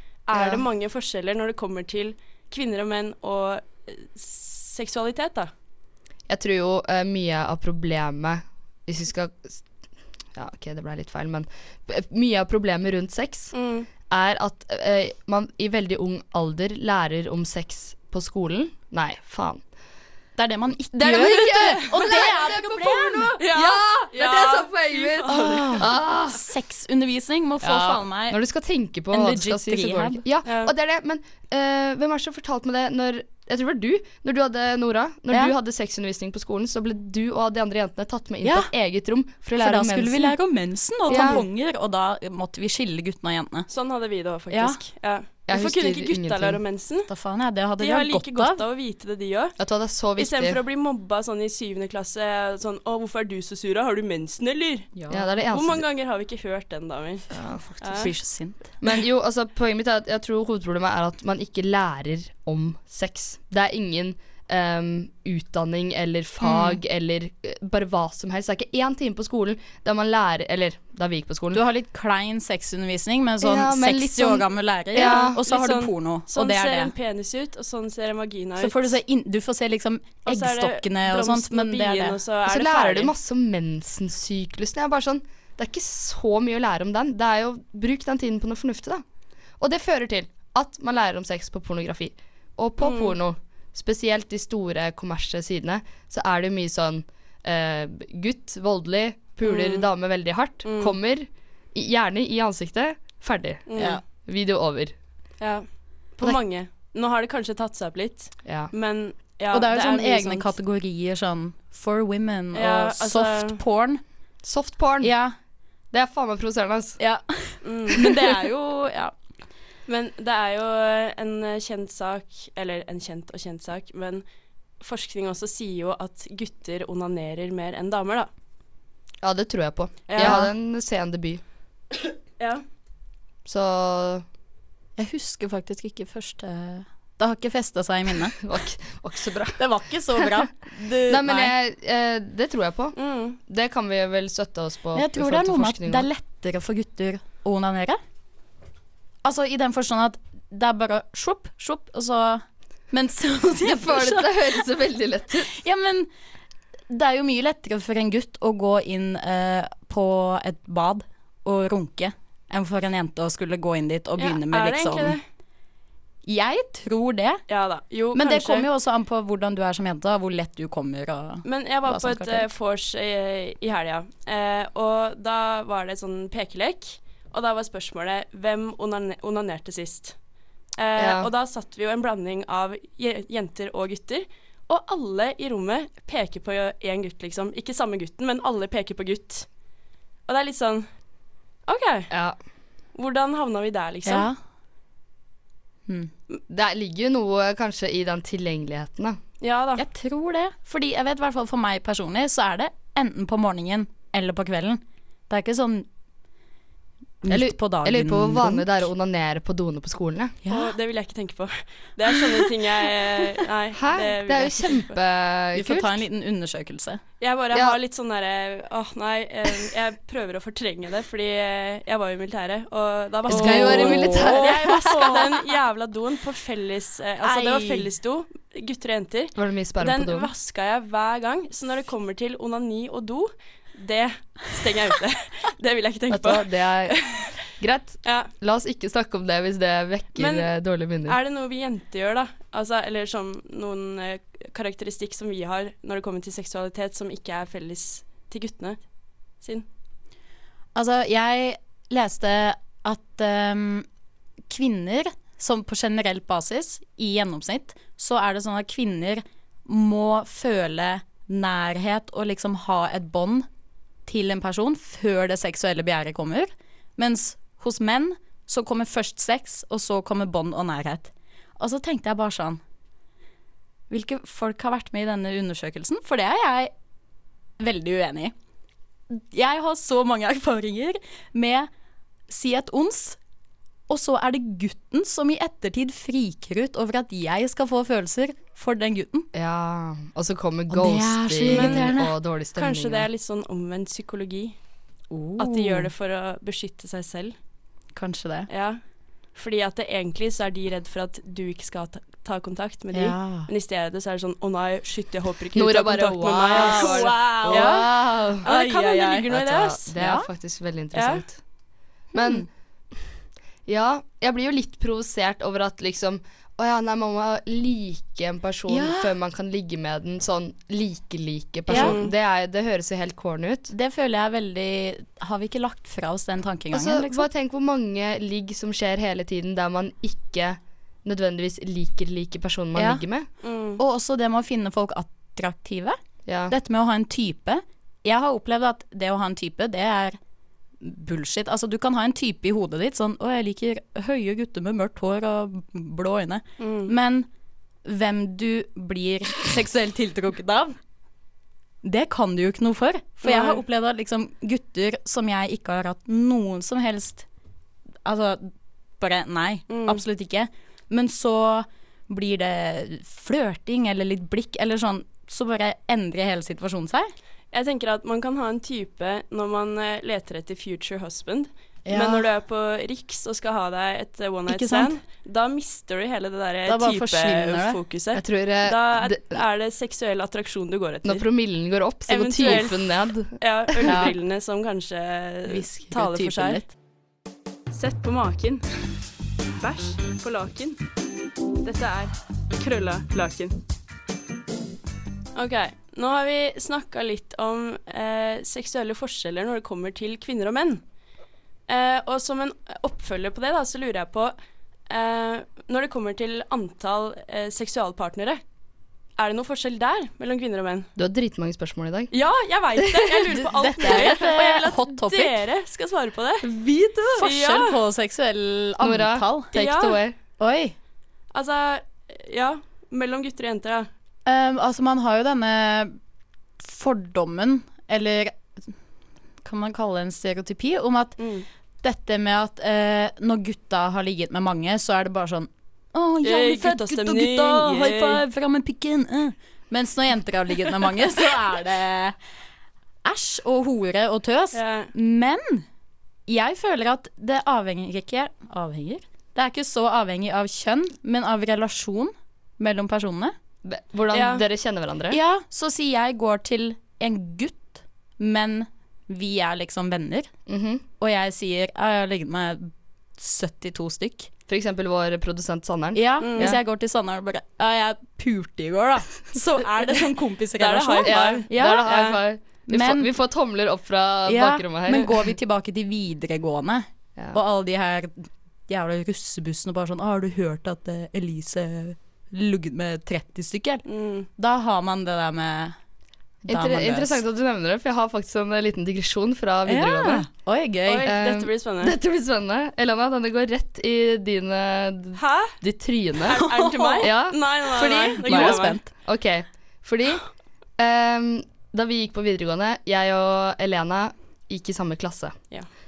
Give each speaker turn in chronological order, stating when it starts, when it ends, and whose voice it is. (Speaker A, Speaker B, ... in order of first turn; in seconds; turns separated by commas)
Speaker A: 0.2-5.5, Speaker B: 6.3-9.6, Speaker B: 10.3-13.5, Speaker A: 13.5-13.9, Speaker B: 14.1-19.6, Speaker C: 20.4-23.4, Speaker B: 20.9-26.4, Speaker A: 23.4-25.7, Speaker C: 25.3-28.4, Speaker B: 27.6-40.4, Speaker C: 29.1-30.2, Speaker A: 30.4-30.7, Speaker C: 38.4-38.7, Speaker C: 39.5-43.7, Speaker B: 41.1-41.4, Speaker A: 41.1-41.4, Speaker A: 43.7-47.1, Speaker C: 44.5-44.8, Speaker B: 45.5-46.6, Speaker C: 47.1-48.6, Speaker A: 47.8-49.6, Speaker B: 49.6-50.6, Speaker A: 50.2-54.9, Speaker C: 55.0-55.3, Speaker B: 55.1-55.8, Speaker A: 55.5-57.3, Speaker B: 57.3-57.6, Speaker C: 57.5-58.7, Speaker A: 57.8-58.1, Speaker B: 58.8-71.6, Speaker C: 66.4-66.8, Speaker C: 71.5-76.9, Speaker B: 73.4-75.4, Speaker A: 74.9-79.0, Speaker C: 78.6-82.2, Speaker A: 80.2-83.1, Speaker B: 82.5-89.0, Speaker B: 89.6-104.9, Speaker A: 92.8-93.2, Speaker A: 99.4-99.9, Speaker A: 100.6-101.0, Speaker A: 103.7-104.0, Speaker C: 103.8-104.0, Speaker A: 105.4-110.5, Speaker B: 108.4-108.7, Speaker C: 109.5-114.0, Speaker A: 112.5-113.6, Speaker B: 114.4-115.1, Speaker C: 115.0-115.3, Speaker B: 115.9-117.0, Speaker C: 117.0-119.1, Speaker A: 117.6-118.2, Speaker A: 119.9-124.2, Speaker A: 124.8-128.3, Speaker B: 129.2-131.4, Speaker A: 130.1-130.4, Speaker C: 130.2-130.5, Speaker A: 132.4-132.6, Speaker B: 133.4-134.2, Speaker C: 135.0-138.4, Speaker B: 138.4-140.5, Speaker C: 139.6-141.5, Speaker B: 141.1-146.1, Speaker A: 142.9-143.4, Speaker C: 144.9-148.0, Speaker C: 149.2-154.6, Speaker B: 153.6-155.5, Speaker C: 155.5-156.1, Speaker C: 156.9-165.2, Speaker A: 164.2-165.2, Speaker C: 166.2-167.4, Speaker A: 167.5-168.7, Speaker C: 168.1-172.5, Speaker A: 171.4-180.2, Speaker A: 180.8-189.5, Speaker B: 181.0-181.3, Speaker A: 190.3-190.9, Speaker A: 191.7-192.1, Speaker B: 192.1-192.3, Speaker A: 192.9-194.3, Speaker C: 194.0-194.4, Speaker C: 195.9-196.1, Speaker B: 196.5-199.2, Speaker A: 199.4-199.8, Speaker C: 199.8-205.9, Speaker C: 207.2-208.8, Speaker B: 207.3-210.4, Speaker C: 210.4-210.7, Speaker A: 210.5-214.9, Speaker B: 213.7-216.0, Speaker C: 215.5-217.0, Speaker A: 217.2-237.4, Speaker B: 223.3-225.3, Speaker C: 223.3-225.3, Speaker C: 227.2-227.9, Speaker B: 229.3-230.3, Speaker B: 236.1-237.0, Speaker B: 237.5-241.2, Speaker A: 238.0-238.3, Speaker A: 240.2-240.5, Speaker A: 241.1-248.8, Speaker A: 249.4-249.7, Speaker C: 250.7-253.9, Speaker C: 254.5-263.5, Speaker C: 264.1-272.6, Speaker C: 273.9-276.7, Speaker C: 277.6-278.3, Speaker C: 279.1-281.7, Speaker C: 282.3-283.2, Speaker C: 283.9-289.3, Speaker B: 289.3-293.1, Speaker C: 290.7-292.1, Speaker A: 291.5-291.9, Speaker A: 292.6-294.6, Speaker C: 295.1-295.9, Speaker A: 295.4-297.3, Speaker C: 297.9-298.5, Speaker A: 298.5-298.8, Speaker A: 299.3-309.9, Speaker C: 302.9-303.5, Speaker B: 305.5-308.4, Speaker C: 306.5-309.3, Speaker B: 309.3-311.4, Speaker C: 309.9-310.3, Speaker A: 310.9-311.2, Speaker C: 312.1-312.4, Speaker B: 312.1-312.5, Speaker B: 313.6-323.7, Speaker C: 318.7-319.1, Speaker C: 321.7-322.0, Speaker A: 321.7-322.1, Speaker C: 323.7-327.3, Speaker B: 326.7-333.3, Speaker C: 332.8-333.0, Speaker A: 333.4-333.8, Speaker C: 333.8-336.0, Speaker B: 336.2-336.5, Speaker C: 336.5-340.1, Speaker C: 340.8-347.3, Speaker A: 346.6-346.9, Speaker C: 347.8-350.7, Speaker C: 351.8-357.2, Speaker A: 353.2-353.6, Speaker C: 358.0-367.1, Speaker A: 359.7-360.0, Speaker A: 367.5-381.2, Speaker C: 371.9-372.3, Speaker C: 374.5-374.9, Speaker C: 376.6-377.8, Speaker B: 378.1-379.4, Speaker B: 381.0-384.1, Speaker A: 382.1-386.6, Speaker C: 383.9-384.1, Speaker C: 385.5-386.6, Speaker A: 387.7-388.6, Speaker A: 389.6-390.8, Speaker A: 391.6-393.6, Speaker A: 395.3-400.8, Speaker A: 401.7-404.3, Speaker A: 404.9-408.4, Speaker A: 409.2-410.9, Speaker B: 411.0-412.1, Speaker A: 412.1-416.5, Speaker C: 413.3-415.4, Speaker B: 416.5-417.2, Speaker C: 417.1-419.5, Speaker A: 417.1-417.8, Speaker B: 418.8-420.1, Speaker A: 419.5-420.0, Speaker C: 420.4-420.7, Speaker A: 421.3-423.9, Speaker C: 424.2-425.9, Speaker C: 426.6-428.7, Speaker C: 429.4-431.2, Speaker A: 431.2-431.4, Speaker C: 431.8-442.1, Speaker A: 436.2-438.2, Speaker C: 443.0-445.6, Speaker A: 444.5-444.9, Speaker C: 446.3-453.3, Speaker B: 453.6-455.2, Speaker A: 454.1-454.4, Speaker C: 455.1-460.3, Speaker B: 460.5-460.8, Speaker C: 461.0-464.3, Speaker B: 464.5-466.6, Speaker C: 465.9-471.9, Speaker A: 466.2-466.6, Speaker A: 470.6-472.2, Speaker B: 471.0-475.3, Speaker C: 472.7-473.1, Speaker C: 474.3-483.8, Speaker A: 483.9-484.3, Speaker C: 484.4-485.8, Speaker B: 486.4-490.3, Speaker C: 486.5-487.2, Speaker C: 489.6-491.1, Speaker A: 490.9-491.9, Speaker B: 491.0-496.4, Speaker A: 495.2-495.6, Speaker A: 496.3-498.8, Speaker C: 496.3-497.1, Speaker B: 497.0-500.2, Speaker C: 498.2-498.9, Speaker B: 500.8-505.4